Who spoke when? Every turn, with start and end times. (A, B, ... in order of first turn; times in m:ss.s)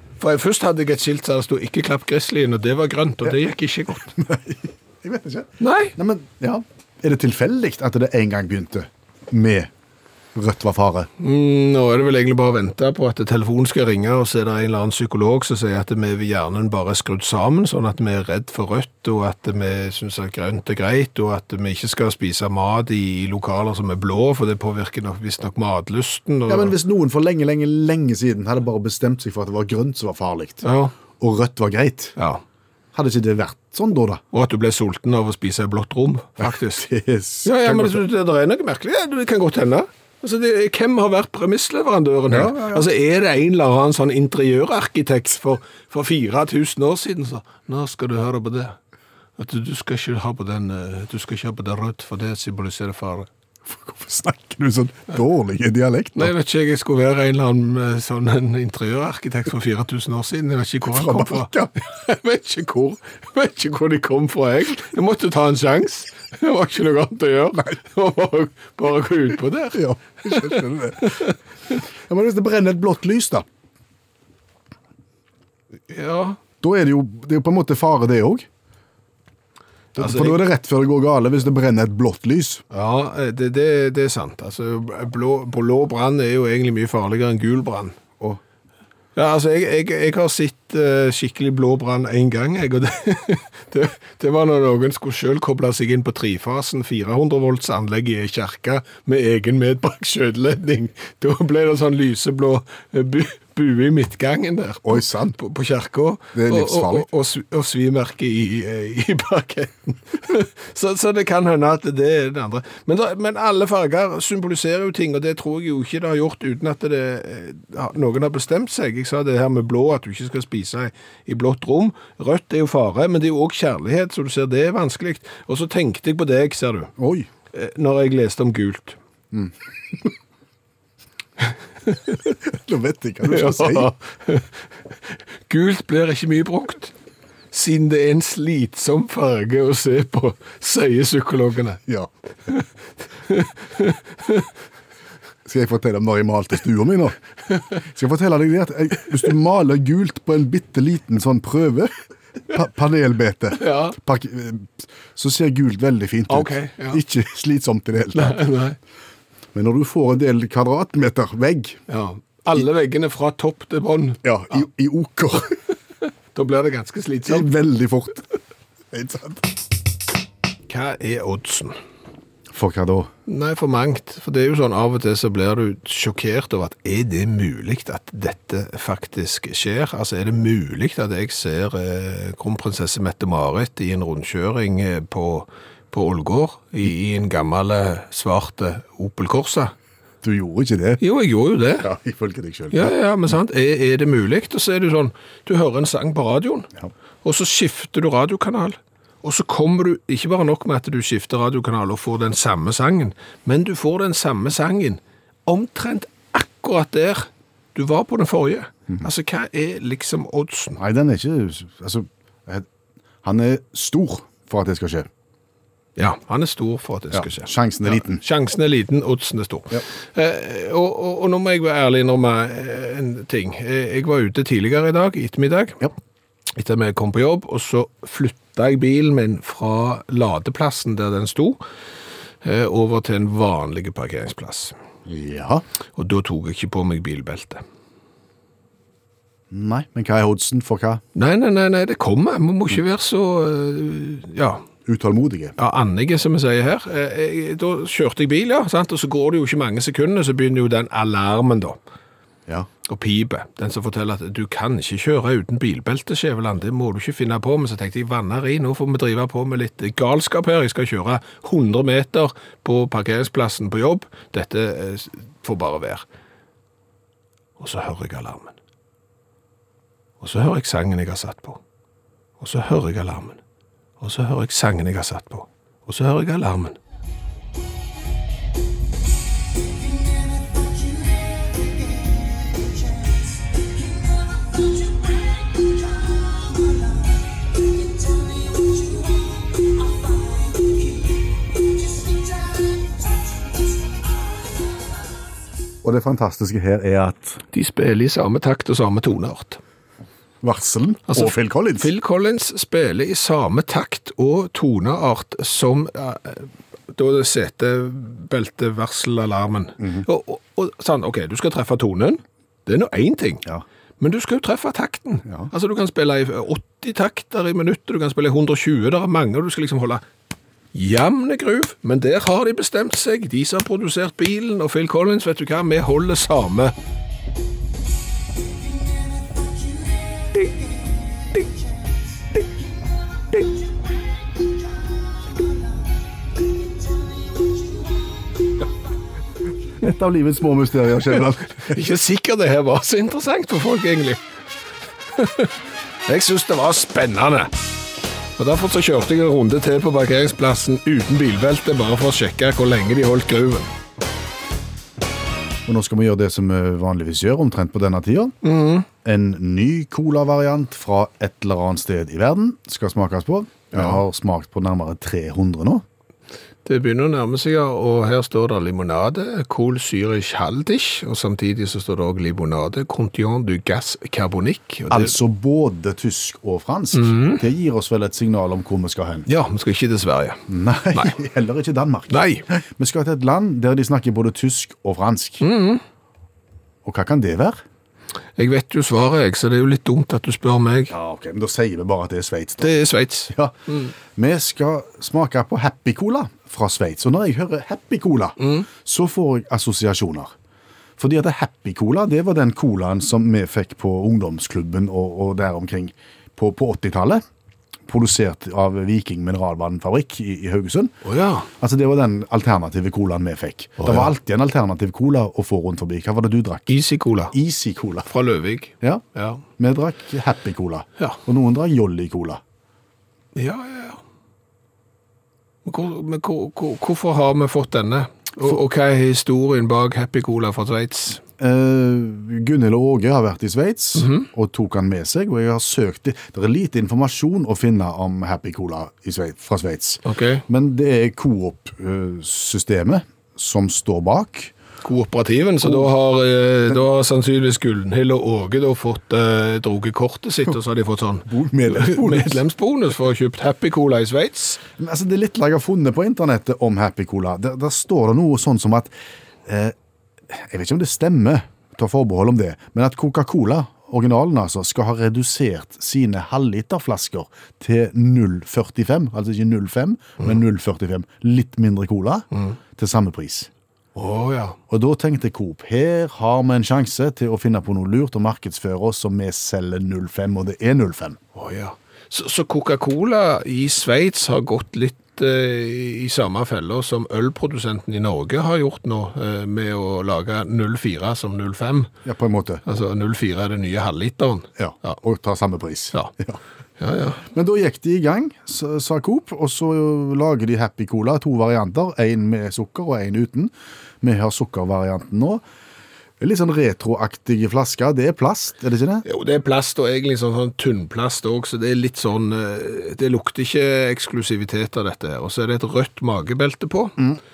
0:00.2-0:04.1 A
0:04.1-0:09.7 B
0:05.6-0:05.9 A
0:10.3-0:11.1 B
0:11.2-0:26.7 A
0:26.5-0:30.6 B
0:30.6-0:30.9 A
0:31.2-0:32.1 B
0:32.2-0:32.4 A
0:32.9-0:34.2 B
0:34.3-0:36.8 A
0:36.4-0:38.0 B
0:37.4-0:48.8 A
0:42.3-0:42.9 B
0:49.4-0:53.3 A
0:53.7-0:56.3 B
0:56.2-1:11.3 A
1:00.9-1:01.7 B
1:09.7-1:11.2 B
1:12.1-1:13.4 B
1:15.9-1:16.4 A
1:16.6-1:18.5 B
1:19.9-1:22.6 B
1:20.0-1:20.4 A
1:22.7-1:28.0 A
1:29.1-2:06.9 A
1:44.8-1:45.4 B
1:46.3-1:47.1 B
2:07.0-2:07.3 B
2:07.5-2:09.0 A
2:11.9-2:12.2 A
2:12.4-2:13.9 B
2:13.2-2:16.9 A
2:17.5-2:21.8 A
2:23.3-2:24.5 A
2:25.4-2:27.2 B
2:27.8-2:31.9 B
2:32.5-2:38.4 B
2:33.6-2:34.0 A
2:36.3-2:37.0 A
2:38.1-2:38.8 A
2:39.5-2:41.8 B
2:41.9-2:44.2 A
2:44.2-2:45.6 B
2:46.3-2:47.5 A
2:47.2-2:48.3 B
2:48.9-2:49.4 B
2:50.7-2:51.8 A
2:52.5-2:53.1 B
2:53.3-3:09.7 A
3:10.2-3:11.0 B
3:11.0-3:11.9 A
3:11.8-3:12.9 B
3:12.7-3:16.7 A
3:17.2-3:30.8 A
3:30.8-3:32.7 B
3:33.2-3:35.1 B
3:36.0-3:45.9 A
3:37.1-3:38.2 B
3:46.6-3:51.6 A
3:52.4-3:54.7 A
3:55.0-3:55.6 B
3:56.0-3:57.6 A
3:59.5-4:01.0 B
4:01.1-4:04.6 A
4:04.8-4:05.6 B
4:05.6-4:11.8 A
4:12.8-4:26.0 A
4:27.6-4:28.5 A
4:30.2-4:31.6 A
4:32.4-4:33.4 A
4:34.0-4:36.8 A
4:55.8-4:57.4 B
4:57.5-4:59.6 A
5:00.4-5:01.9 B
5:01.1-5:13.4 A
5:09.8-5:10.0 B
5:14.0-5:20.0 A
5:20.7-5:26.7 A
5:39.8-5:41.8 B
5:41.6-5:44.2 A
5:45.1-5:45.5 A
5:46.1-5:47.5 A
5:48.4-5:53.7 A
5:55.6-5:58.3 B
5:58.4-5:58.9 A
5:59.0-6:05.8 B
6:03.7-6:04.0 A
6:06.6-6:15.1 A
6:14.9-6:19.3 B
6:16.9-6:17.4 A
6:19.3-6:20.4 A
6:20.5-6:25.4 B
6:22.1-6:22.4 A
6:25.4-6:25.8 A
6:26.8-6:27.6 B
6:28.4-6:30.9 A
6:30.9-6:32.7 B
6:32.6-6:33.9 A
6:33.3-6:33.5 B
6:34.1-6:40.3 B
6:38.4-6:38.7 A
6:41.0-6:47.2 B
6:47.9-6:50.9 B
6:51.0-6:51.5 A
6:51.6-6:56.7 B
6:53.8-6:54.1 A
6:56.7-6:57.3 A
6:57.3-6:58.1 B
6:58.1-6:59.4 A
6:59.6-7:02.4 B
7:03.3-7:04.0 A
7:05.6-7:11.2 A
7:11.4-7:24.5 B
7:14.0-7:14.3 A
7:20.0-7:20.4 A
7:24.8-7:34.6 A
7:31.3-7:32.4 B
7:34.8-7:38.9 B
7:39.4-7:39.7 B
7:40.3-7:53.5 B
7:53.9-7:54.6 A
7:54.7-8:01.2 B
8:01.3-8:11.9 A
8:12.0-8:12.6 B
8:12.6-8:15.0 A
8:14.6-8:16.4 B
8:16.8-8:17.2 A
8:17.2-8:25.4 B
8:26.2-8:29.0 B
8:29.0-8:37.0 A